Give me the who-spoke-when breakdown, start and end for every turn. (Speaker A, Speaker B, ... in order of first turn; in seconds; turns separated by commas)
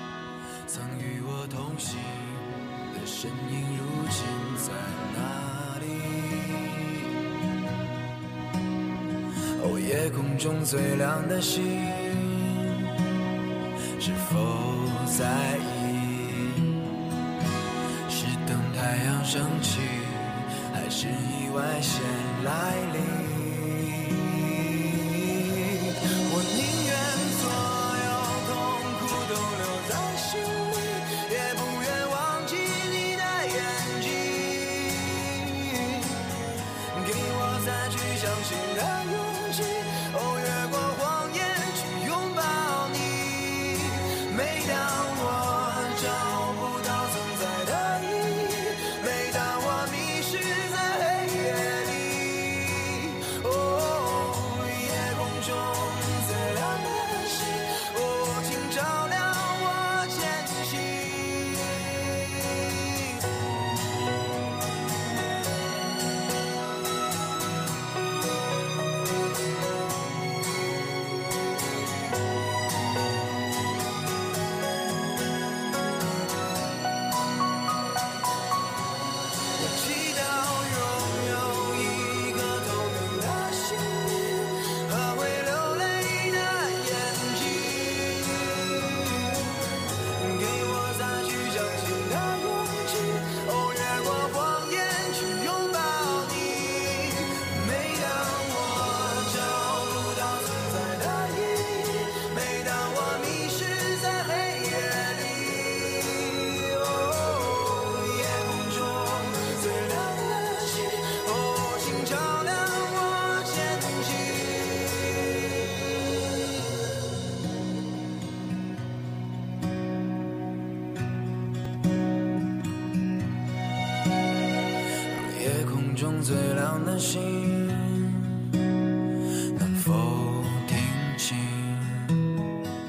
Speaker A: 0.7-6.8, Speaker A: 9.6-12.9, Speaker A: 14.0-16.8, Speaker A: 18.1-36.3, Speaker A: 36.9-61.9, Speaker A: 62.5-63.2, Speaker A: 79.6-89.5, Speaker A: 90.2-115.3, Speaker A: 125.1-128.3, Speaker A: 129.6-132.1